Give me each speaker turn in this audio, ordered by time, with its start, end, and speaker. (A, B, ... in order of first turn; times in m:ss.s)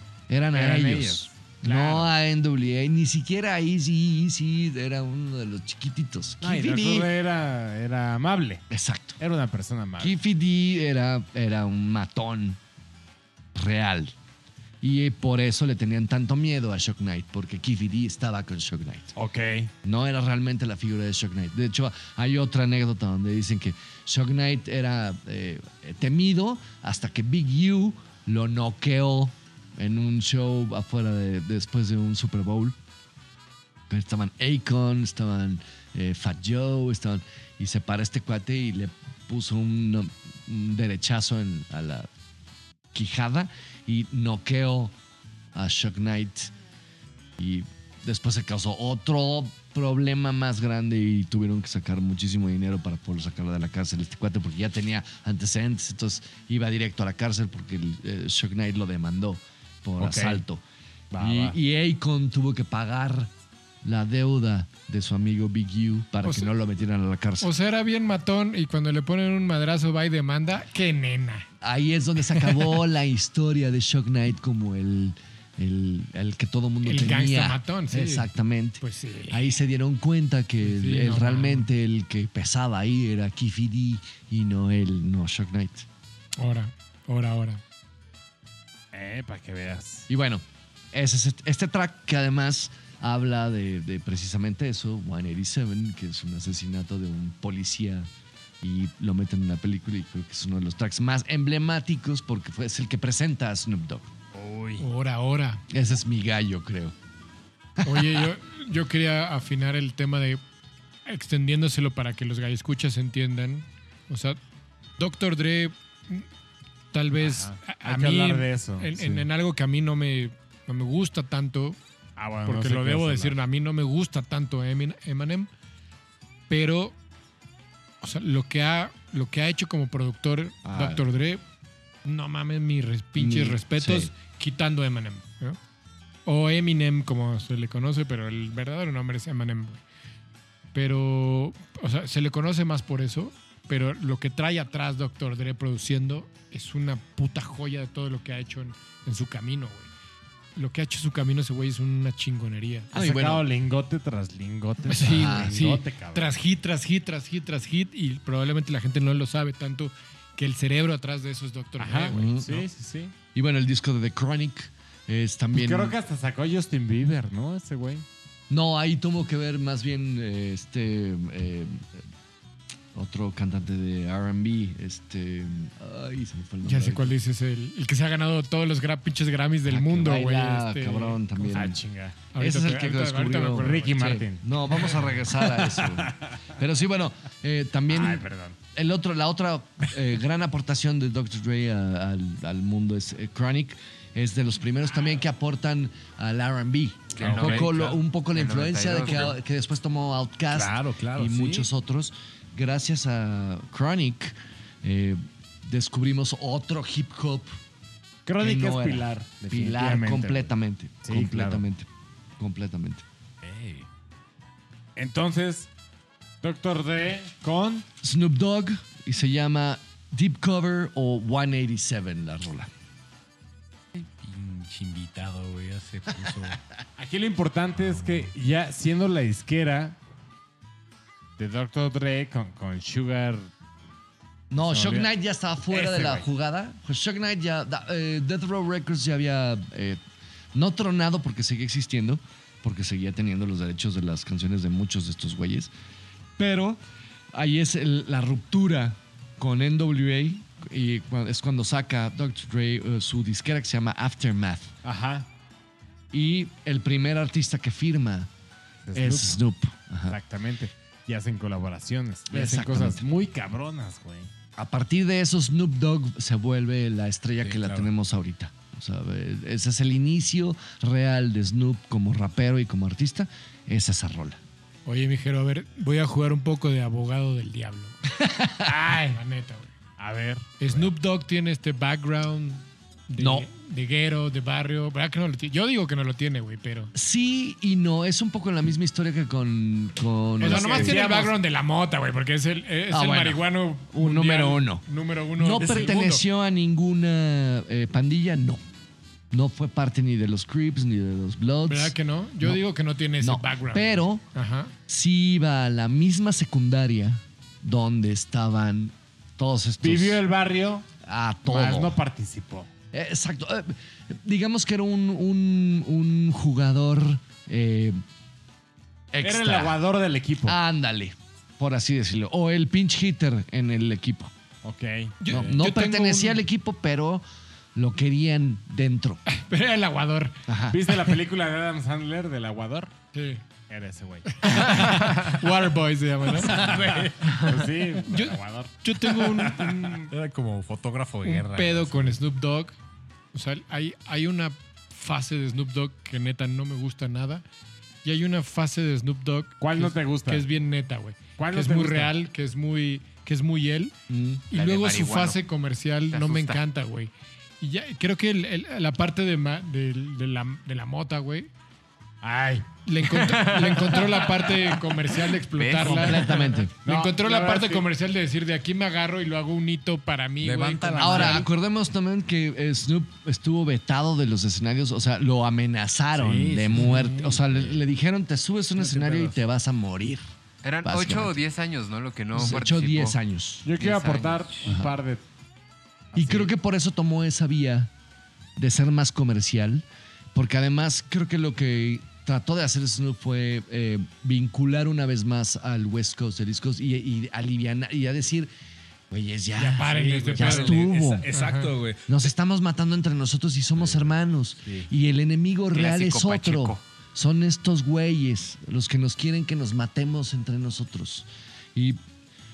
0:00.3-0:07.1 A
0:00.5-0:02.1 B
0:06.4-0:08.6 B
0:08.7-0:09.2 A
0:09.2-0:10.1 B
0:10.0-0:12.6 A
0:13.5-0:14.1 A
0:14.8-0:19.1 A
0:19.2-0:19.7 B
0:19.8-0:32.8 A
0:33.9-0:42.1 A
0:42.9-0:44.9 A
0:45.5-0:46.5 A
0:47.4-1:00.6 A
1:00.0-1:00.4 B
1:01.1-1:01.6 B
1:01.2-1:03.3 A
1:03.8-1:07.5 A
1:06.2-1:06.5 C
1:07.4-1:11.4 C
1:11.6-1:25.8 A
1:16.8-1:18.2 C
1:18.8-1:19.6 C
1:20.6-1:21.7 C
1:26.4-1:27.6 C
1:28.9-1:30.1 B
1:30.1-1:38.1 A
1:38.6-1:44.1 A
1:44.3-1:44.8 B
1:44.8-1:45.6 C
1:45.7-1:46.9 A
1:47.8-1:48.2 A
1:47.8-1:50.4 C
1:51.0-1:54.4 C
1:55.0-1:56.2 C
1:56.9-2:01.8 C
1:57.2-1:58.9 B
1:59.0-1:59.2 D
2:02.2-2:03.4 B
2:02.4-2:05.5 C
2:06.5-2:06.9 C
2:08.0-2:11.4 C
2:10.6-2:11.0 A
2:12.0-2:15.6 C
2:13.2-2:14.1 A
2:16.2-2:19.8 C
2:20.7-2:29.9 C
2:30.6-2:32.9 C
2:32.9-2:33.4 A
2:32.9-2:36.3 B
2:34.9-2:42.4 C
2:34.9-2:35.6 A
2:41.8-2:43.1 B
2:42.1-2:42.6 A
2:43.3-2:46.0 A
2:45.5-2:48.0 B
2:48.5-2:52.0 A
2:52.9-2:57.1 A
2:56.6-3:01.6 C
2:59.7-3:01.8 A
3:01.5-3:02.2 B
3:02.3-3:03.9 C
3:02.3-3:27.5 A
3:03.6-3:04.4 B
3:05.3-3:06.3 B
3:07.9-3:08.6 B
3:17.2-3:19.4 E
3:17.2-3:17.9 D
3:17.2-3:17.8 B
3:20.5-3:21.7 D
3:28.2-3:30.5 B
3:28.4-3:31.9 A
3:31.0-3:31.6 B
3:32.4-3:33.0 A
3:33.4-3:33.8 D
3:35.0-3:35.7 B
3:36.4-3:37.8 B
3:38.0-3:42.7 A
3:44.0-3:46.6 D
3:47.0-3:50.0 B
3:51.4-3:53.5 B
3:54.5-4:00.0 A
3:54.6-3:55.1 B
3:55.7-3:56.2 B
4:00.5-4:05.7 A
4:06.4-4:06.8 A
4:07.3-4:14.7 A
4:14.8-4:15.3 B
4:16.1-4:18.3 A
4:18.8-4:19.4 B
4:18.9-4:20.2 A
4:20.1-4:24.3 B
4:22.3-4:23.0 A
4:24.6-4:34.4 A
4:27.4-4:27.9 D
4:34.8-4:39.7 C
4:38.6-4:39.2 B
4:40.0-4:40.9 B
4:40.6-4:46.9 C
4:43.2-4:43.5 A
4:46.9-4:51.0 A
4:50.4-4:56.2 C
4:50.4-4:51.4 B
4:52.9-4:58.6 A
4:59.3-5:02.6 A
5:01.6-5:04.7 C
5:03.2-5:04.2 A
5:04.9-5:10.2 A
5:09.8-5:10.9 B
5:11.0-5:12.0 A
5:11.4-5:12.7 B
5:12.9-5:18.0 A
5:19.1-5:19.8 A
5:19.2-5:20.6 B
5:20.4-5:24.3 A
5:24.6-5:25.4 B
5:25.2-5:26.4 C
5:25.3-5:27.2 A
5:27.7-5:29.2 A
5:29.3-5:30.4 C
5:30.4-5:30.8 A
5:30.7-5:32.9 B
5:33.1-5:33.4 C
5:33.7-5:35.2 B
5:34.3-5:36.6 C
5:36.4-5:37.6 D
5:37.3-5:40.0 B
5:38.1-5:40.1 C
5:40.1-5:42.2 D
5:41.2-5:42.7 C
5:43.3-5:47.4 C
5:48.0-5:53.9 C
5:49.6-5:50.5 B
5:51.4-5:52.1 B
5:54.1-5:54.4 A
5:54.5-6:01.5 C
5:54.5-5:55.4 E
5:56.1-5:56.6 E
6:02.2-6:02.7 B
6:02.8-6:06.3 C
6:03.2-6:06.5 E
6:05.8-6:06.7 A
6:06.8-6:07.9 B
6:06.8-6:11.5 C
6:10.4-6:11.5 D
6:11.0-6:20.2 A
6:16.2-6:17.7 D
6:18.8-6:19.4 D
6:20.6-6:23.2 E
6:20.8-6:21.4 A
6:22.3-6:23.7 A
6:23.6-6:25.2 B
6:23.8-6:24.6 E
6:24.6-6:25.0 A
6:26.1-6:26.5 B
6:26.1-6:27.9 A
6:28.6-6:38.5 A
6:39.1-6:41.3 A
6:39.6-6:41.7 C
6:39.9-6:42.2 D
6:42.1-6:52.0 A
6:45.7-6:46.8 E